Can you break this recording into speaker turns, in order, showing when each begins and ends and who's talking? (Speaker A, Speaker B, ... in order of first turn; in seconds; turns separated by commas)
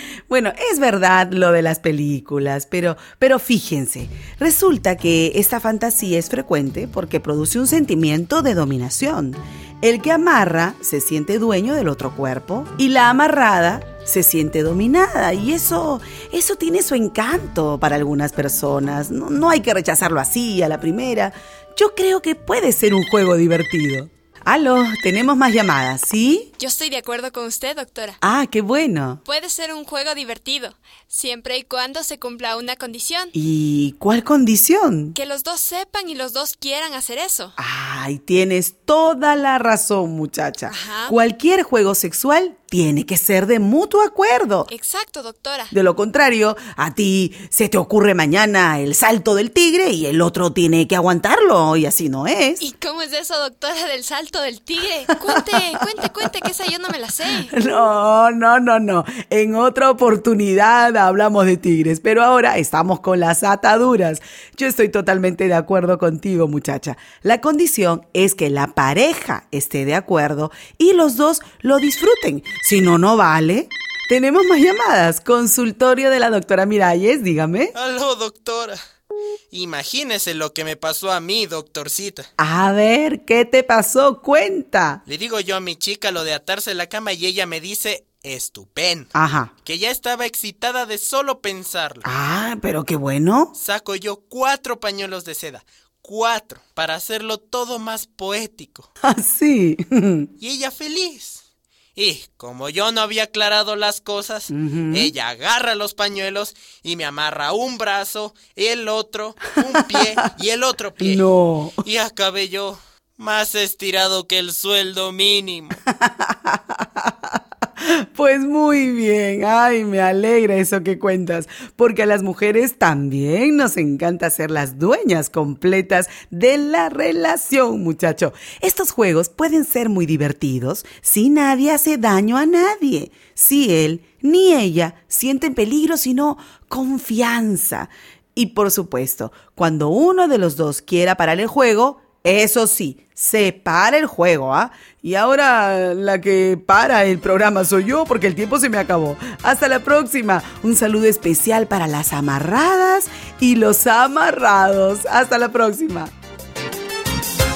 Speaker A: 0.3-26.5, Speaker B: 26.6-28.2, Speaker A: 28.2-29.2, Speaker B: 29.2-33.3, Speaker A: 33.3-35.1, Speaker B: 35.1-37.5, Speaker A: 37.6-44.7, Speaker B: 40.7-41.1, Speaker B: 44.7-45.7, Speaker A: 45.7-52.6, Speaker B: 52.6-57.5, Speaker A: 55.2-56.2, Speaker A: 57.5-77.7, Speaker C: 77.7-78.8, Speaker C: 79.5-82.3, Speaker A: 82.4-85.0, Speaker C: 85.0-89.1, Speaker A: 89.1-89.5, Speaker C: 89.6-92.1, Speaker A: 92.0-93.5, Speaker C: 93.5-98.9, Speaker A: 99.0-100.3, Speaker C: 100.4-101.4, Speaker C: 102.0-111.2, Speaker A: 104.5-105.1, Speaker A: 111.0-111.8, Speaker C: 111.8-115.8, Speaker A: 115.9-156.1